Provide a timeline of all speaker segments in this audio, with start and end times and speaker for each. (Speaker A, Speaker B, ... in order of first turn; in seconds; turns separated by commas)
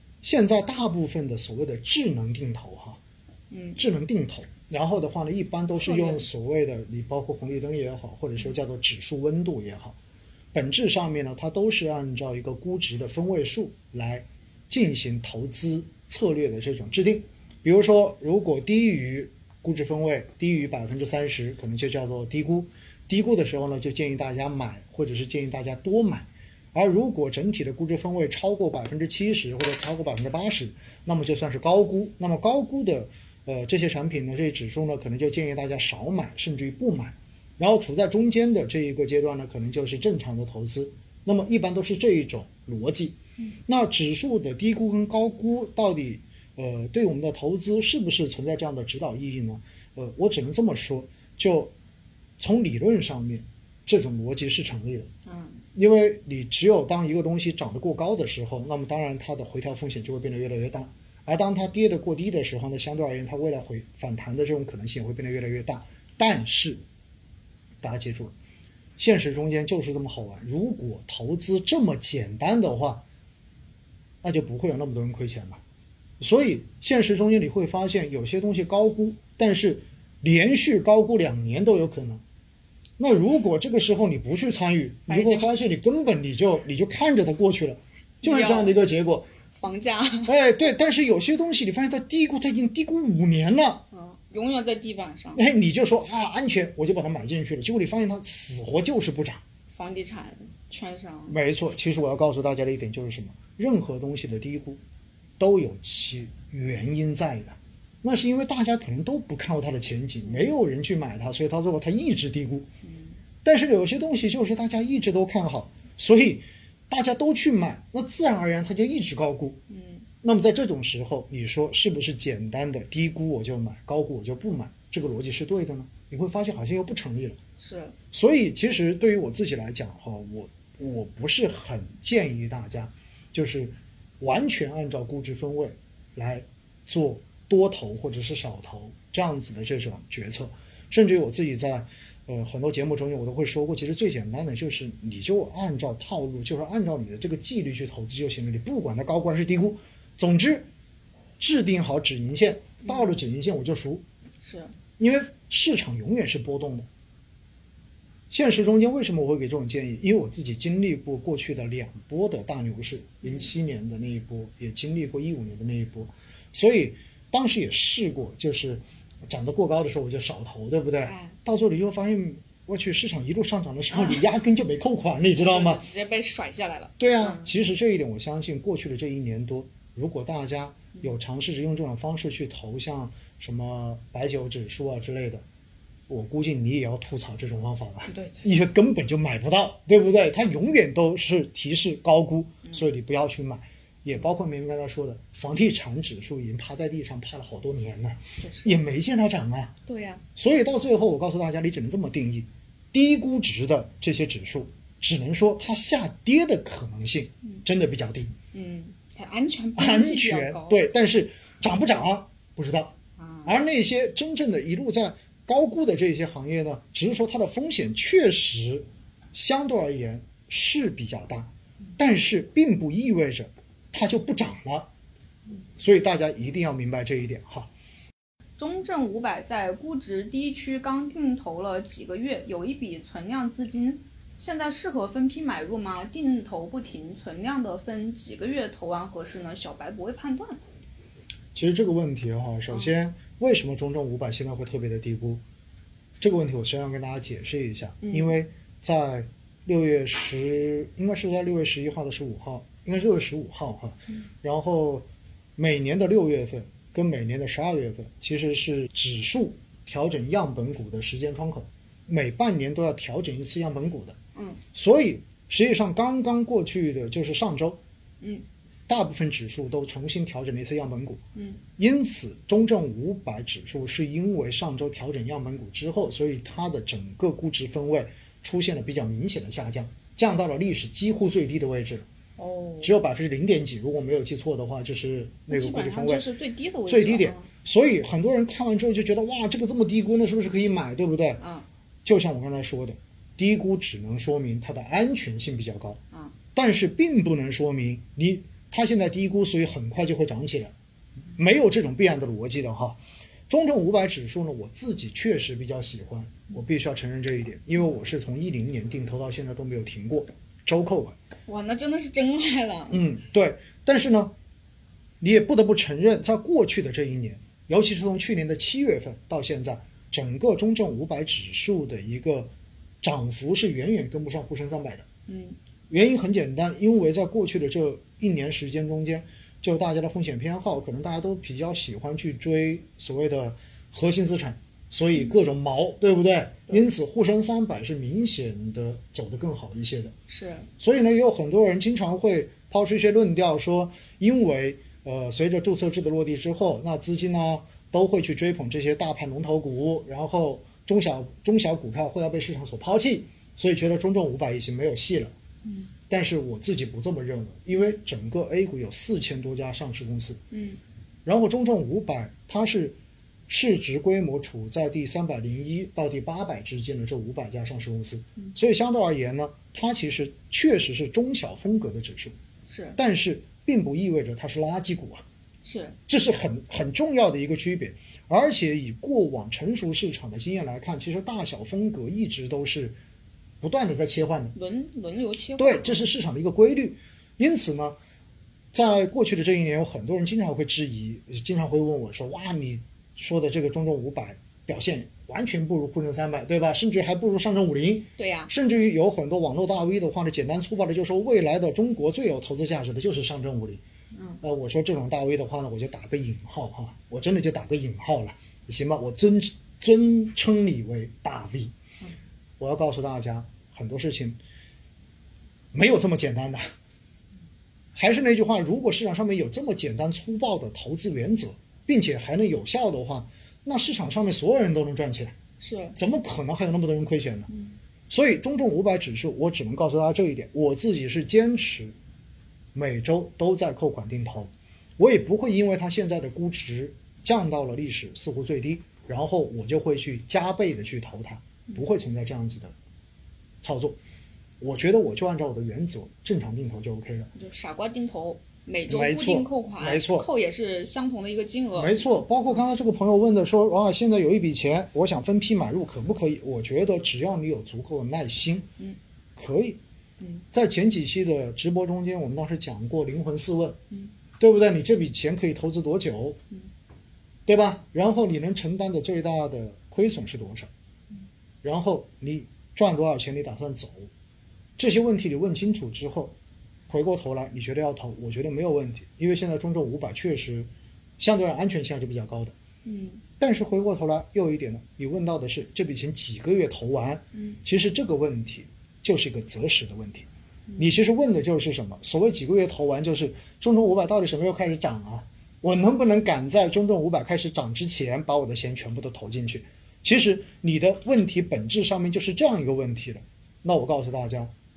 Speaker A: 0.2-3.0, Speaker B: 3.5-3.8, Speaker A: 3.8-10.0, Speaker B: 5.7-6.2, Speaker A: 10.5-51.7, Speaker A: 52.4-55.1, Speaker B: 55.2-55.6, Speaker A: 55.7-66.8, Speaker A: 67.8-68.3, Speaker A: 69.0-73.0, Speaker A: 74.2-75.6, Speaker A: 76.2-82.2, Speaker A: 83.0-89.3, Speaker B: 85.1-85.5, Speaker B: 88.2-88.8, Speaker B: 89.5-90.3, Speaker A: 90.3-93.8, Speaker B: 93.9-95.4, Speaker A: 95.3-99.4, Speaker B: 99.7-101.4, Speaker A: 101.3-104.8, Speaker A: 105.4-112.7, Speaker B: 112.8-113.1, Speaker A: 113.4-119.6, Speaker B: 119.7-120.0, Speaker A: 120.2-127.4, Speaker B: 127.6-127.9, Speaker A: 128.1-150.7, Speaker A: 151.4-154.0, Speaker B: 152.8-153.2, Speaker B: 154.4-154.7, Speaker A: 155.0-156.9, Speaker A: 158.3-175.8, Speaker B: 163.2-163.5, Speaker B: 171.1-171.3, Speaker B: 173.9-174.2, Speaker B: 175.4-177.6, Speaker A: 177.0-185.4, Speaker A: 186.1-199.7, Speaker B: 188.1-188.5, Speaker B: 198.4-198.8, Speaker B: 199.8-200.2, Speaker A: 200.3-208.3, Speaker B: 208.5-210.8, Speaker A: 209.8-224.9, Speaker B: 213.2-213.5, Speaker A: 225.8-227.7, Speaker B: 228.6-240.6, Speaker A: 241.5-245.4, Speaker A: 246.2-264.2, Speaker B: 248.0-248.4, Speaker B: 264.3-264.6, Speaker A: 264.7-267.8, Speaker A: 268.9-271.2, Speaker B: 271.3-271.6, Speaker A: 271.8-282.0, Speaker B: 282.4-282.9, Speaker A: 282.8-286.2, Speaker B: 285.5-287.5, Speaker A: 286.9-291.4, Speaker B: 291.4-291.6, Speaker A: 292.0-296.0, Speaker A: 296.5-300.7, Speaker A: 301.4-303.0, Speaker A: 303.5-311.1, Speaker B: 311.5-313.0, Speaker A: 312.9-314.3, Speaker A: 315.2-325.1, Speaker B: 325.3-325.6, Speaker A: 325.9-340.1, Speaker B: 340.3-340.7, Speaker A: 340.8-355.3, Speaker A: 356.1-360.4, Speaker B: 360.5-360.8, Speaker A: 361.2-372.3, Speaker B: 372.7-373.0, Speaker A: 372.9-375.2, Speaker B: 375.6-375.9, Speaker A: 376.1-383.0, Speaker A: 383.6-384.5, Speaker B: 384.5-386.0, Speaker A: 385.6-388.0, Speaker A: 388.7-403.8, Speaker B: 398.2-398.5, Speaker B: 404.1-404.4, Speaker A: 404.4-411.7, Speaker A: 412.6-414.4, Speaker A: 415.7-416.6, Speaker A: 417.9-425.4, Speaker B: 425.6-425.9, Speaker A: 425.9-427.5, Speaker B: 427.5-427.8, Speaker A: 428.1-431.9, Speaker A: 432.7-442.7, Speaker A: 443.6-444.0, Speaker A: 444.6-447.3, Speaker B: 447.3-451.9, Speaker A: 448.9-450.3, Speaker A: 451.8-458.7, Speaker A: 459.4-459.8, Speaker A: 460.5-463.8, Speaker A: 464.4-466.4, Speaker A: 467.5-470.7, Speaker A: 471.6-474.1, Speaker A: 474.8-476.4, Speaker A: 476.9-480.7, Speaker A: 481.2-482.5, Speaker B: 482.8-483.2, Speaker A: 483.4-504.5, Speaker B: 487.3-487.6, Speaker B: 490.7-490.9